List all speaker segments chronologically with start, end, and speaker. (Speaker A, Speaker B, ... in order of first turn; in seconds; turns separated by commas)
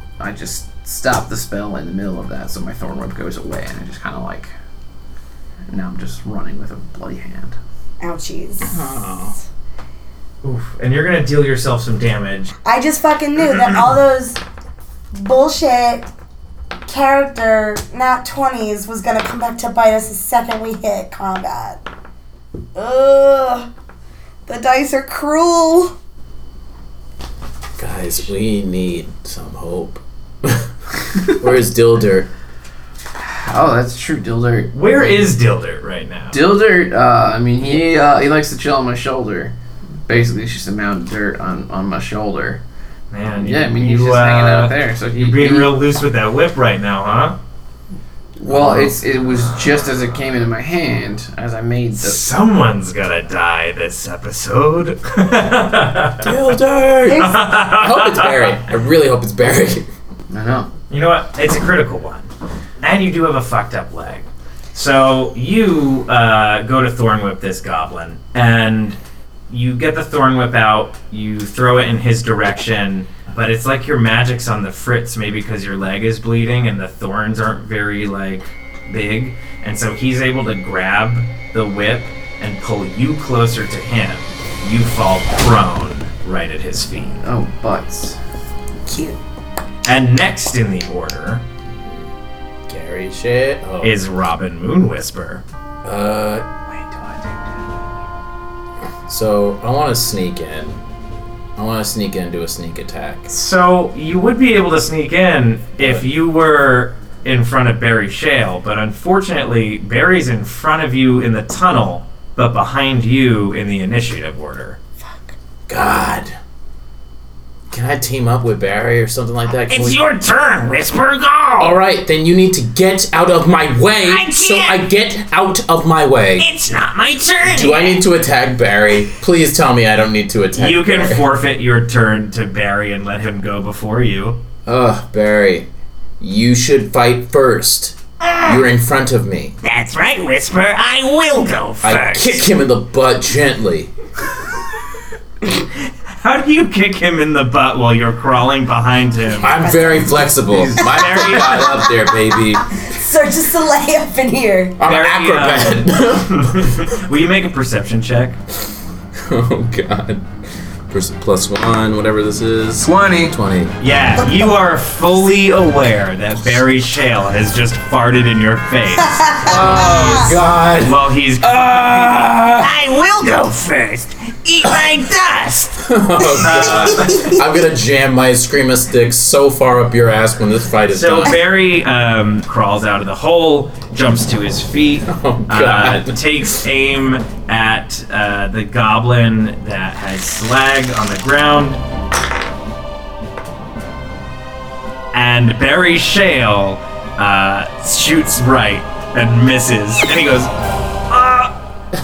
Speaker A: 0.2-4.5, Speaker A: 5.7-7.6, Speaker B: 8.0-8.8, Speaker C: 8.7-9.3, Speaker D: 10.4-12.5, Speaker B: 12.7-14.4, Speaker B: 15.1-16.1, Speaker B: 16.9-21.8, Speaker B: 22.8-23.7, Speaker B: 24.5-25.9, Speaker C: 27.8-32.3, Speaker A: 33.2-35.3, Speaker D: 34.7-36.4, Speaker A: 36.3-39.5, Speaker A: 40.1-42.6, Speaker D: 43.1-47.4, Speaker A: 43.4-45.7, Speaker A: 48.4-52.2, Speaker C: 48.5-48.9, Speaker D: 52.0-56.5, Speaker C: 56.2-59.9, Speaker D: 57.1-58.6, Speaker B: 57.1-57.4, Speaker A: 60.3-60.7, Speaker D: 60.9-62.3, Speaker D: 62.8-69.0, Speaker D: 69.5-87.2, Speaker A: 87.2-88.2, Speaker B: 88.9-89.2, Speaker D: 89.8-91.4, Speaker C: 92.7-94.0, Speaker D: 93.8-95.4, Speaker C: 95.8-96.5, Speaker C: 99.1-100.8, Speaker C: 101.6-103.3, Speaker D: 103.3-114.8, Speaker C: 105.8-106.1, Speaker B: 115.0-115.3, Speaker C: 115.7-116.4, Speaker C: 117.7-120.0, Speaker D: 119.7-121.7, Speaker C: 121.6-126.5, Speaker D: 124.0-124.8, Speaker D: 126.4-128.0, Speaker C: 127.4-131.2, Speaker D: 130.5-134.4, Speaker C: 134.7-135.7, Speaker C: 136.2-139.6, Speaker D: 138.3-138.6, Speaker D: 139.6-142.4, Speaker C: 141.8-143.9, Speaker D: 146.2-149.5, Speaker C: 149.4-152.8, Speaker B: 149.4-150.9, Speaker A: 150.5-150.8, Speaker D: 150.8-151.7, Speaker B: 152.8-154.8, Speaker C: 154.8-156.9, Speaker D: 154.8-158.4, Speaker C: 159.2-160.3, Speaker C: 160.9-163.8, Speaker A: 162.8-163.4, Speaker D: 163.8-169.4, Speaker B: 169.0-170.4, Speaker C: 169.4-172.7, Speaker D: 170.8-175.8, Speaker C: 175.8-181.4, Speaker D: 176.4-177.3, Speaker B: 176.6-177.4, Speaker D: 180.9-191.8, Speaker C: 185.1-186.6, Speaker D: 195.1-200.5, Speaker D: 201.1-201.5